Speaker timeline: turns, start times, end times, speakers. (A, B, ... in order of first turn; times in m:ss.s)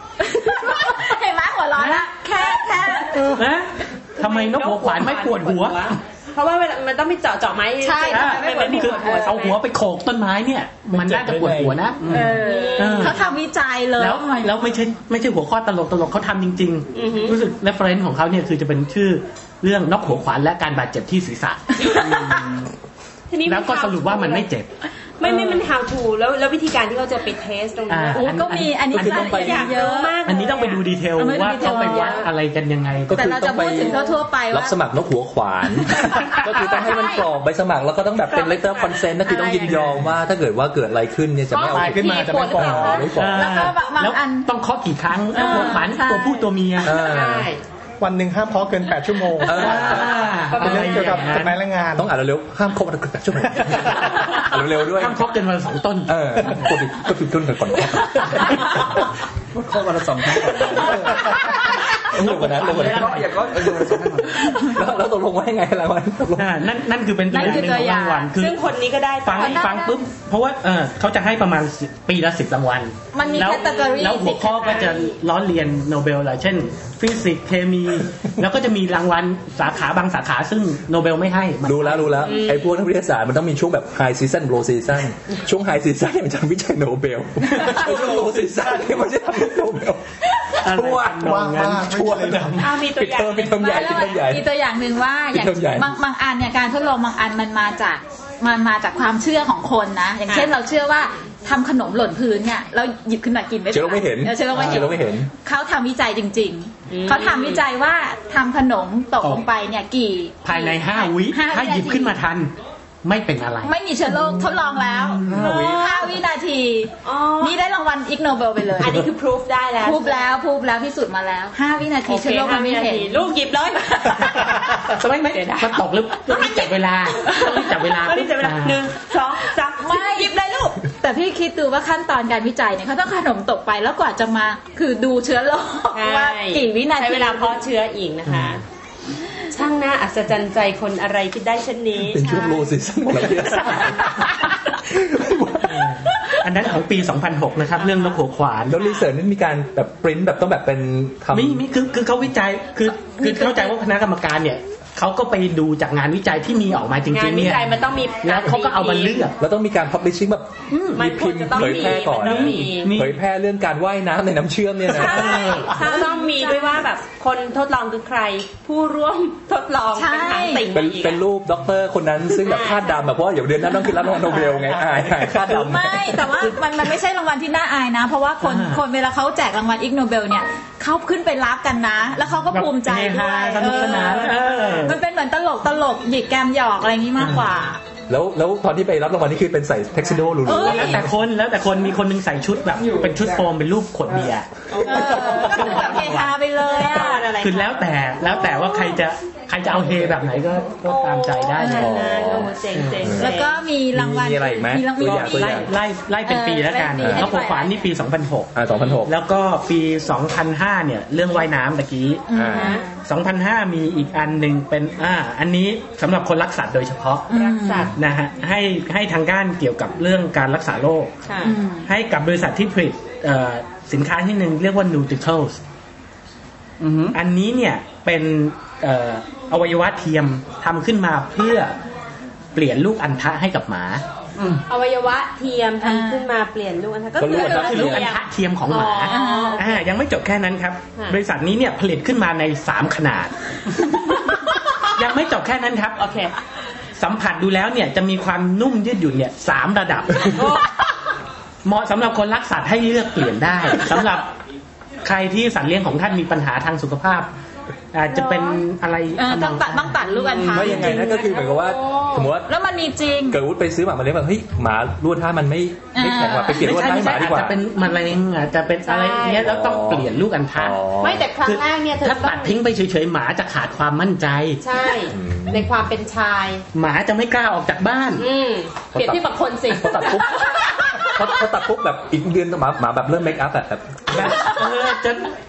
0:00.2-0:03.4 A
0:01.8-0:02.1 B
0:03.1-0:06.0 B
0:04.2-0:09.6 C
0:07.8-0:09.3 A
0:08.0-0:13.2 B
0:10.9-0:11.8 D
0:12.1-0:14.6 A
0:12.2-0:13.3 C
0:14.0-0:22.7 B
0:16.9-0:17.4 C
0:21.9-0:22.2 C
0:23.3-0:24.5 C
0:23.4-0:24.7 B
0:25.2-0:28.3 C
0:27.9-0:29.7 B
0:28.1-0:30.2 A
0:28.9-0:29.7 E
0:29.0-0:30.8 C
0:30.2-0:33.3 B
0:31.2-0:32.3 A
0:31.6-0:32.3 C
0:33.1-0:43.6 E
0:33.1-0:34.7 A
0:33.8-0:34.1 C
0:36.8-0:37.2 C
0:38.2-0:39.7 C
0:39.3-0:39.7 A
0:41.5-0:43.1 C
0:41.7-0:43.1 D
0:43.1-0:47.1 B
0:43.3-0:44.5 A
0:45.3-0:46.5 A
0:46.8-0:47.5 E
0:46.8-0:47.6 C
0:48.0-0:52.1 D
0:49.4-0:50.2 E
0:49.5-0:51.6 B
0:49.7-0:51.4 C
0:51.9-0:55.3 E
0:54.9-0:56.1 B
0:56.1-0:59.0 E
0:59.5-1:01.5 F
1:02.1-1:03.4 E
1:02.1-1:03.1 B
1:02.2-1:04.5 F
1:04.5-1:06.7 E
1:06.4-1:08.6 B
1:07.3-1:08.3 A
1:08.3-1:09.8 C
1:09.2-1:22.3 B
1:09.3-1:10.0 A
1:13.1-1:14.9 A
1:13.2-1:14.0 C
1:14.6-1:15.1 C
1:21.6-1:30.0 E
1:22.2-1:22.7 C
1:27.8-1:28.3 D
1:30.6-1:31.8 B
1:30.6-1:34.4 E
1:31.2-1:32.7 D
1:32.6-1:34.2 C
1:33.6-1:52.2 A
1:35.3-1:35.9 E
1:40.3-1:40.5 C
1:43.7-1:45.3 E
1:46.9-1:47.6 C
1:50.4-1:52.5 B
1:53.0-1:53.7 B
1:53.6-1:59.1 A
1:55.0-1:55.7 B
1:55.3-1:56.2 C
1:57.0-1:57.6 C
1:58.8-2:00.3 C
1:59.8-2:03.3 A
2:02.1-2:04.6 C
2:04.6-2:08.8 B
2:05.3-2:06.6 C
2:07.3-2:10.3 C
2:09.8-2:17.6 A
2:15.9-2:18.6 C
2:18.2-2:18.6 B
2:19.5-2:22.2 C
2:22.0-2:26.0 E
2:22.2-2:22.7 A
2:25.9-2:28.9 B
2:28.7-2:31.6 E
2:31.3-2:39.3 B
2:33.2-2:33.7 A
2:37.1-2:39.3 C
2:39.4-2:45.5 E
2:40.7-2:43.2 B
2:40.9-2:43.0 C
2:44.9-2:51.2 C
2:44.9-2:46.8 A
2:45.0-2:45.8 B
2:49.9-2:50.6 A
2:50.7-2:56.1 E
2:52.4-2:53.0 C
2:54.5-2:55.3 B
2:55.5-3:07.8 A
2:58.4-2:58.8 B
3:02.5-3:05.0 B
3:07.2-3:07.4 B
3:08.1-3:11.1 E
3:10.4-3:11.0 A
3:10.5-3:16.4 B
3:12.8-3:13.4 F
3:14.7-3:15.7 C
3:14.8-3:17.3 A
3:16.7-3:17.8 C
3:16.9-3:22.1 B
3:20.8-3:23.6 C
3:21.6-3:21.9 A
3:21.7-3:23.4 E
3:23.2-3:25.7 A
3:23.9-3:25.7 E
3:25.0-3:28.5 B
3:26.2-3:27.9 A
3:27.0-3:27.4 E
3:28.5-3:29.1 E
3:29.0-3:32.2 B
3:32.3-3:32.9 A
3:32.3-3:32.7 E
3:32.5-3:32.9 C
3:32.9-3:37.3 B
3:37.3-3:37.9 A
3:37.3-3:37.9 C
3:37.9-3:41.1 B
3:41.2-3:41.6 C
3:41.4-3:41.9 A
3:41.8-3:45.6 B
3:46.8-3:47.2 F
3:47.1-3:51.8 B
3:52.5-3:54.0 B
3:54.4-3:54.6 F
3:54.7-3:59.8 C
3:55.8-3:56.3 A
3:57.2-3:58.1 E
3:57.3-4:03.3 B
3:59.1-3:59.6 A
4:04.9-4:06.0 B
4:06.0-4:06.3 C
4:07.0-4:10.6 B
4:10.3-4:10.8 C
4:11.6-4:14.3 B
4:15.0-4:17.3 B
4:17.9-4:20.0 B
4:19.2-4:21.2 A
4:20.4-4:22.3 C
4:20.4-4:22.5 E
4:22.5-4:23.4 A
4:23.3-4:27.6 E
4:25.9-4:26.7 A
4:26.5-4:30.8 B
4:28.8-4:29.5 C
4:29.4-4:31.3 E
4:31.0-4:32.6 C
4:31.3-4:34.6 B
4:34.6-4:36.6 C
4:35.1-4:35.6 E
4:36.7-4:38.2 B
4:38.2-4:40.6 C
4:38.9-4:44.3 E
4:44.1-4:45.3 B